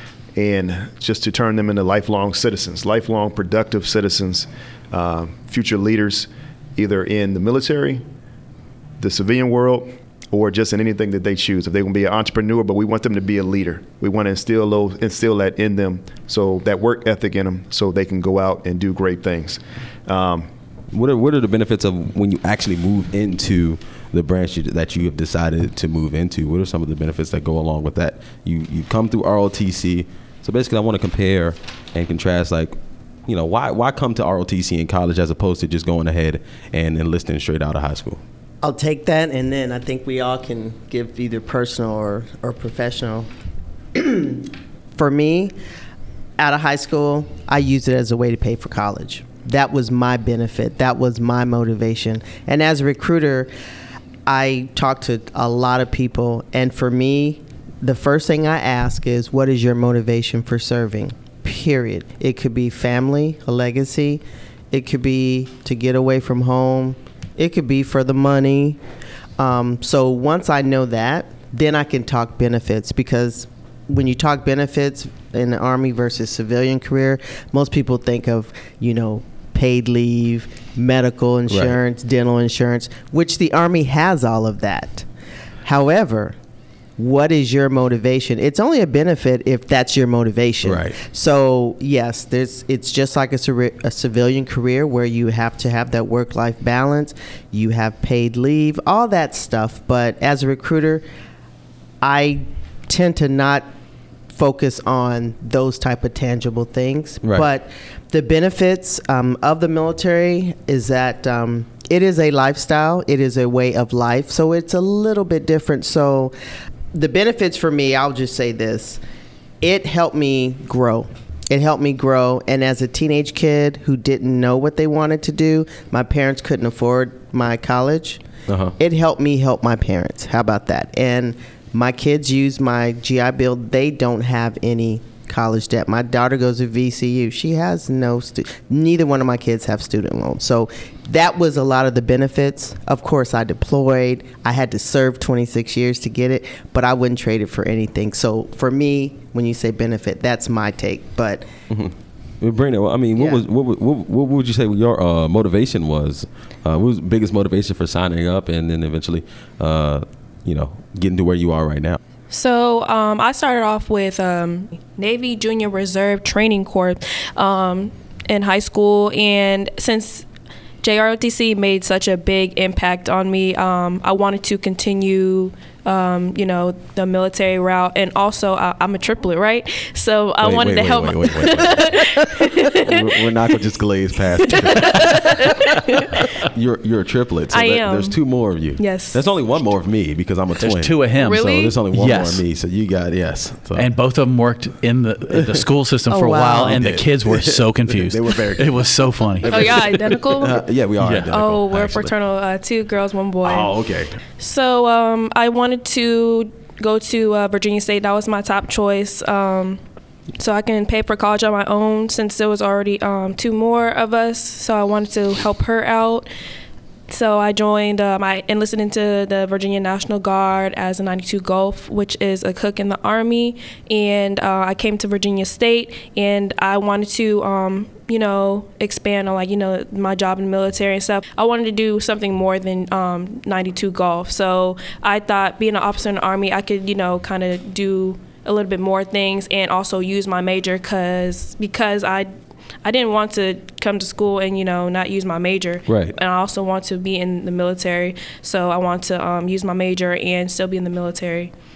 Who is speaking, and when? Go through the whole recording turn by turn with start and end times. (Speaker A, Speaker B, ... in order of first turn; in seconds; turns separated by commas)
Speaker A: 0.4-8.0, Speaker A: 9.0-20.5, Speaker B: 20.9-32.8, Speaker B: 33.3-38.2, Speaker C: 38.6-43.3, Speaker C: 44.0-45.5, Speaker C: 46.4-53.5, Speaker C: 54.3-68.8, Speaker C: 69.4-85.1, Speaker B: 81.5-81.8, Speaker C: 85.7-86.4, Speaker C: 87.0-101.0, Speaker B: 90.6-91.0, Speaker C: 102.0-103.7, Speaker C: 104.3-116.3, Speaker C: 116.9-119.0, Speaker C: 119.6-128.2, Speaker B: 128.5-128.8, Speaker C: 128.8-151.5, Speaker B: 151.7-162.0, Speaker C: 153.2-153.4, Speaker D: 162.3-170.3, Speaker D: 170.8-183.7, Speaker B: 180.4-185.7, Speaker D: 184.4-186.3, Speaker B: 186.4-193.9, Speaker D: 187.5-188.2, Speaker D: 188.8-189.2, Speaker E: 190.6-192.4, Speaker D: 191.2-191.8, Speaker E: 193.8-200.1, Speaker B: 195.3-195.6, Speaker C: 196.1-196.8, Speaker B: 196.5-202.1, Speaker D: 199.4-200.6, Speaker E: 201.0-201.3, Speaker D: 201.3-203.7, Speaker B: 203.4-204.2, Speaker D: 204.4-209.8, Speaker D: 210.4-216.3, Speaker D: 217.1-242.3, Speaker D: 242.8-251.5, Speaker B: 245.9-246.2